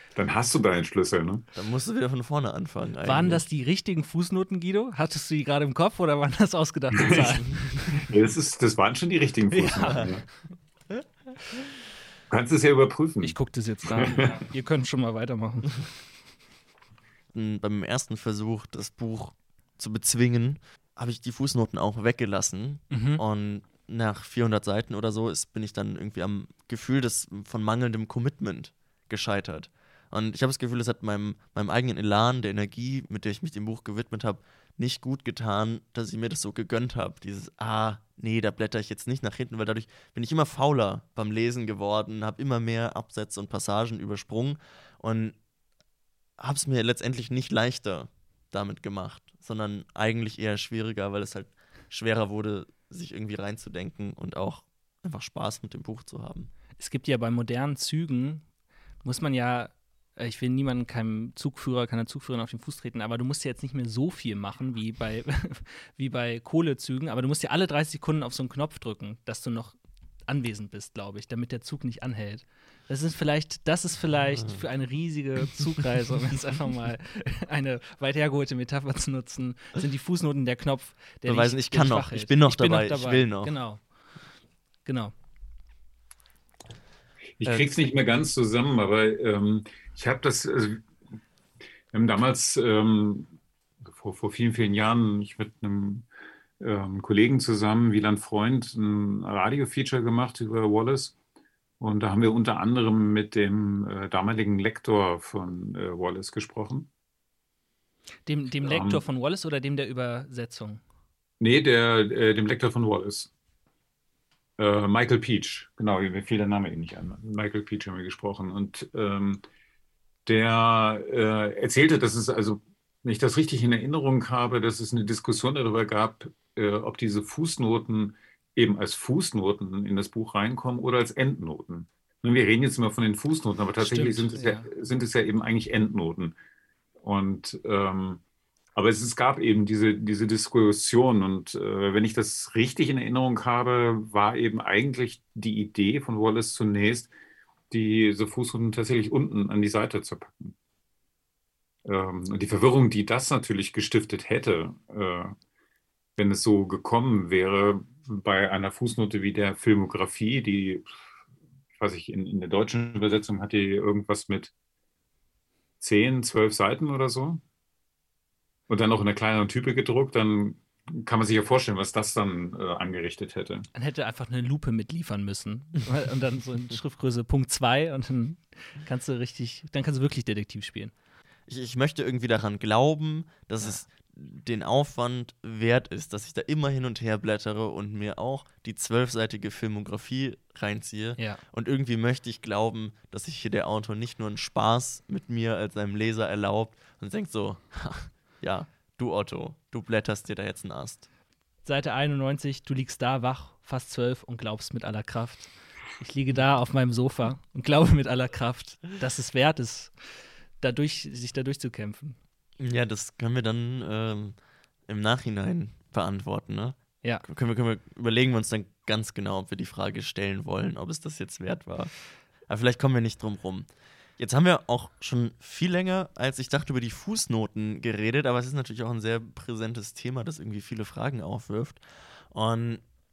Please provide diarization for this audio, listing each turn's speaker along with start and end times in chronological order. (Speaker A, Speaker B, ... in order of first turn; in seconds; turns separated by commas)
Speaker A: 0.1-1.5, Speaker B: 1.6-3.5, Speaker C: 3.0-8.0, Speaker A: 6.9-10.2, Speaker C: 9.5-10.2, Speaker A: 12.3-13.4, Speaker C: 13.2-15.8, Speaker A: 13.9-14.4, Speaker B: 17.3-45.4, Speaker C: 22.9-23.2, Speaker B: 46.4-56.5, Speaker C: 56.8-58.4, Speaker C: 59.0-83.8, Speaker B: 81.3-83.5, Speaker C: 84.8-85.1, Speaker A: 87.4-90.9, Speaker C: 87.5-87.7, Speaker A: 91.9-93.3, Speaker A: 93.9-96.1, Speaker A: 96.6-101.2, Speaker A: 101.8-106.9, Speaker C: 108.3-110.8, Speaker A: 108.6-109.0, Speaker A: 111.4-113.3, Speaker A: 114.6-119.4, Speaker A: 120.3-136.3, Speaker C: 133.8-134.7, Speaker A: 137.0-138.2, Speaker A: 138.8-147.1, Speaker A: 147.7-150.6, Speaker A: 151.8-155.3, Speaker A: 156.2-160.9, Speaker A: 161.8-164.5, Speaker A: 165.8-167.4, Speaker A: 168.7-173.7, Speaker C: 173.7-180.9, Speaker B: 181.5-201.1, Speaker C: 201.7-209.9, Speaker C: 210.6-212.2, Speaker B: 212.6-214.4, Speaker B: 214.9-221.9, Speaker B: 222.5-231.8, Speaker B: 232.3-232.8